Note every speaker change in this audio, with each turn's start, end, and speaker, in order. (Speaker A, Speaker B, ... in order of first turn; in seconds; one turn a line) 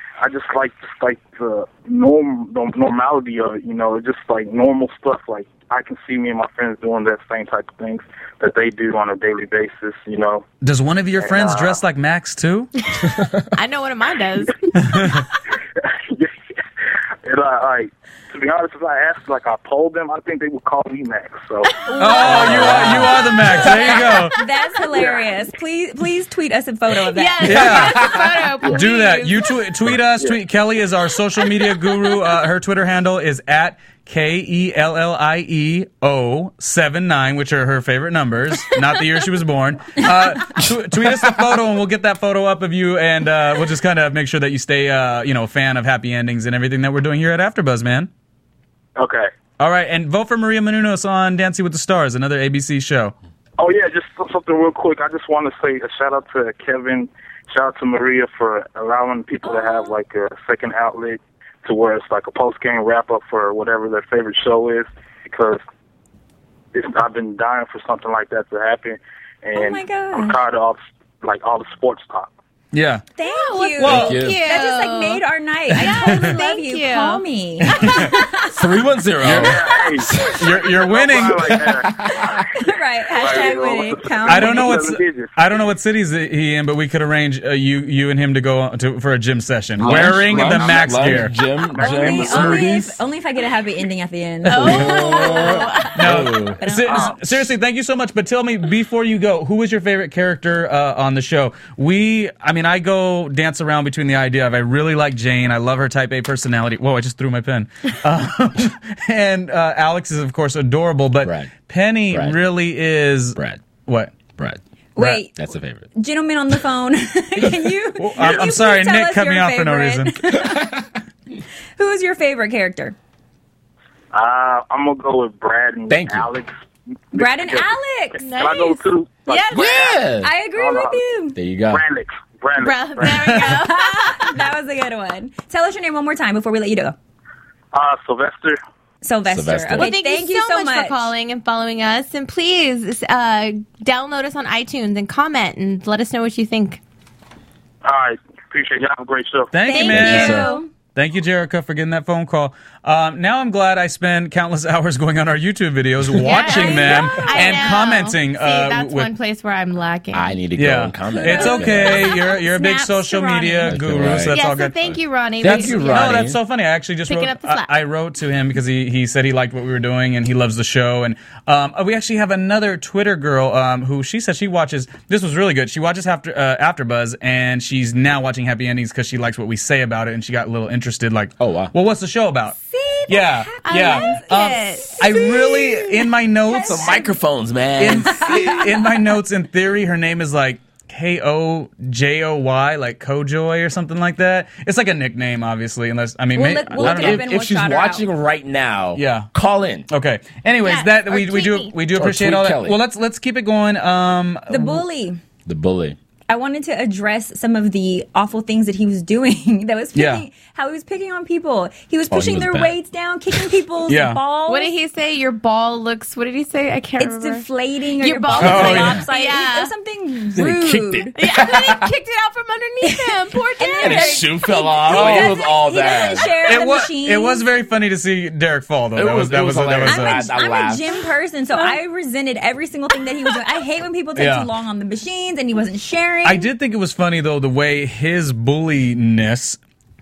Speaker A: 0.2-10.4
Speaker B: 10.6-12.7
Speaker A: 11.2-11.8
Speaker C: 13.5-14.7
Speaker B: 14.8-15.2
Speaker A: 15.8-16.3
Speaker A: 17.2-21.7
Speaker D: 21.9-27.9
Speaker C: 21.9-22.2
Speaker B: 22.0-24.4
Speaker E: 22.2-23.9
Speaker C: 27.0-29.5
Speaker B: 27.4-48.1
Speaker A: 49.0-49.3
Speaker B: 49.6-53.1
Speaker A: 53.6-65.6
Speaker A: 66.7-72.3
Speaker D: 69.5-70.4
Speaker B: 72.7-73.0
Speaker D: 73.2-78.6
Speaker C: 73.2-77.2
Speaker B: 73.8-74.2
Speaker E: 73.8-74.4
Speaker B: 75.8-76.3
Speaker B: 77.7-78.2
Speaker E: 78.5-80.6
Speaker B: 79.2-79.6
Speaker A: 79.3-85.3
Speaker B: 80.2-81.6
Speaker E: 81.3-82.5
Speaker D: 82.6-84.9
Speaker B: 84.3-91.3
Speaker E: 89.8-93.0
Speaker A: 90.3-91.1
Speaker A: 91.6-92.7
Speaker D: 91.8-95.9
Speaker C: 94.5-96.1
Speaker E: 94.5-96.6
Speaker B: 94.6-94.9
Speaker B: 96.0-114.2
Speaker D: 96.6-97.2
Speaker E: 111.2-111.5
Speaker E: 112.1-112.4
Speaker E: 113.4-113.6
Speaker D: 115.0-115.3
Speaker B: 115.0-115.2
Speaker E: 115.3-115.9
Speaker D: 115.9-120.8
Speaker B: 118.0-120.2
Speaker E: 120.5-120.7
Speaker D: 121.8-123.0
Speaker A: 124.1-126.5
Speaker E: 125.9-126.3
Speaker A: 127.1-127.7
Speaker D: 127.2-128.2
Speaker C: 128.2-130.0
Speaker A: 128.2-129.8
Speaker E: 129.5-130.3
Speaker D: 130.2-131.4
Speaker A: 130.5-131.0
Speaker E: 131.4-131.8
Speaker A: 131.7-133.2
Speaker C: 132.6-134.4
Speaker D: 133.4-137.0
Speaker A: 137.7-138.6
Speaker D: 139.0-141.1
Speaker E: 139.3-139.9
Speaker C: 139.8-146.8
Speaker A: 147.8-149.5
Speaker B: 149.5-159.1
Speaker D: 149.6-150.7
Speaker C: 149.7-150.6
Speaker E: 149.9-150.5
Speaker C: 156.2-160.3
Speaker D: 156.3-157.7
Speaker E: 160.1-162.1
Speaker B: 160.6-164.7
Speaker D: 161.3-163.8
Speaker E: 163.7-164.4
Speaker C: 164.3-166.2
Speaker E: 164.9-166.4
Speaker B: 165.4-182.6
Speaker C: 167.1-167.7
Speaker E: 181.4-181.7
Speaker D: 182.7-185.6
Speaker B: 183.1-187.0
Speaker C: 183.7-186.1
Speaker D: 186.5-187.1
Speaker E: 186.6-188.7
Speaker B: 187.8-197.3
Speaker D: 188.0-188.9
Speaker D: 196.3-198.1
Speaker E: 196.8-199.9
Speaker B: 199.0-199.3
Speaker B: 199.9-204.8
Speaker C: 200.6-201.8
Speaker E: 201.9-202.8
Speaker D: 204.5-205.2
Speaker E: 205.5-206.0
Speaker D: 206.3-214.7
Speaker B: 209.9-210.2
Speaker E: 212.1-212.8
Speaker B: 213.9-214.2
Speaker C: 214.5-219.7
Speaker D: 217.0-221.1
Speaker B: 218.4-219.0
Speaker E: 218.5-218.8
Speaker E: 220.3-221.9
Speaker C: 221.2-225.4
Speaker D: 222.8-227.4
Speaker E: 223.8-226.3
Speaker B: 226.4-230.3
Speaker E: 228.9-230.8
Speaker D: 229.9-236.5
Speaker C: 231.5-231.8
Speaker B: 234.2-234.5
Speaker B: 236.2-239.6